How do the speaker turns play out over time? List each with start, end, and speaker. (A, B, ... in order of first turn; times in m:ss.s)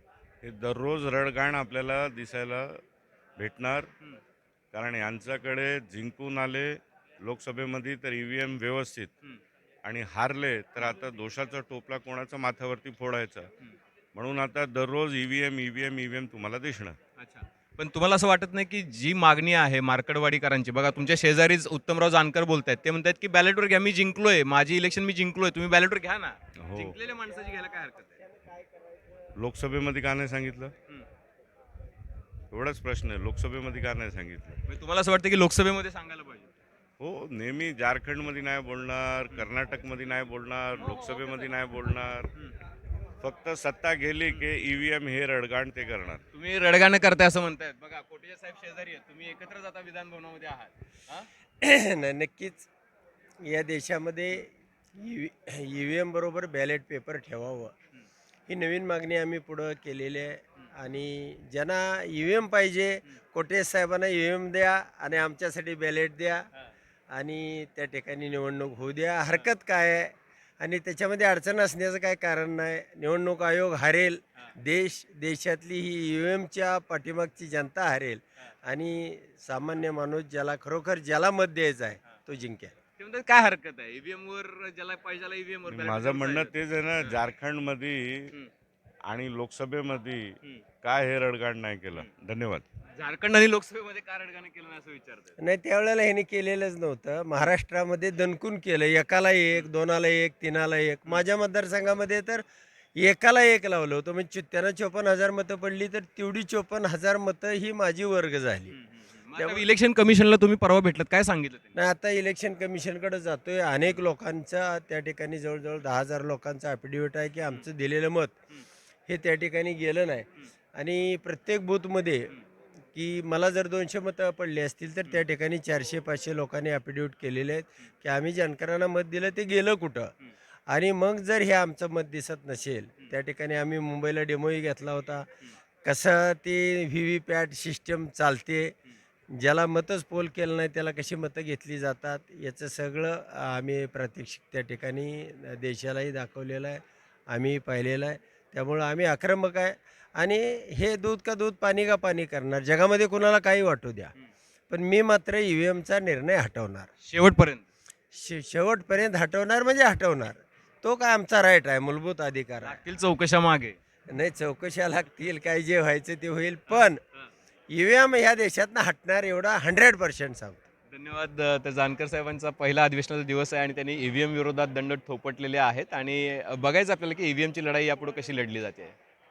0:00.4-0:02.8 A
0:03.4-0:03.9 A
0:04.7-0:09.1 A
0:09.8-0:13.5 A
0:14.2-0:17.0 A
0:17.2-0:28.2 B
0:26.6-0:27.0 A
0:29.4-0:30.7 A
0:32.5-0:34.6 A
0:34.7-0:36.5 B
0:37.0-0:42.3 A
0:40.8-0:41.2 B
0:43.2-0:46.2 A
0:46.3-0:51.3 B
0:51.6-0:52.7 C
0:53.4-0:57.7 C
0:58.5-1:06.4 C
1:07.1-1:22.8 C
1:23.0-1:27.2 B
1:25.7-1:28.3 A
1:29.1-1:32.6 A
1:33.0-1:35.3 B
1:35.4-1:42.4 C
1:43.0-1:48.8 C
1:48.7-1:51.7 B
1:49.4-1:49.6 C
1:51.8-1:58.4 C
1:59.1-2:02.3 C
2:02.9-2:10.1 C
2:10.7-2:15.3 C
2:15.8-2:18.7 C
2:19.4-2:34.1 C
2:34.7-2:36.9 C
2:37.0-2:37.6 B
2:38.1-2:42.8 C
2:42.6-2:43.8 B
2:44.1-2:47.0 C
2:47.7-2:50.6 C
2:50.9-2:59.0 B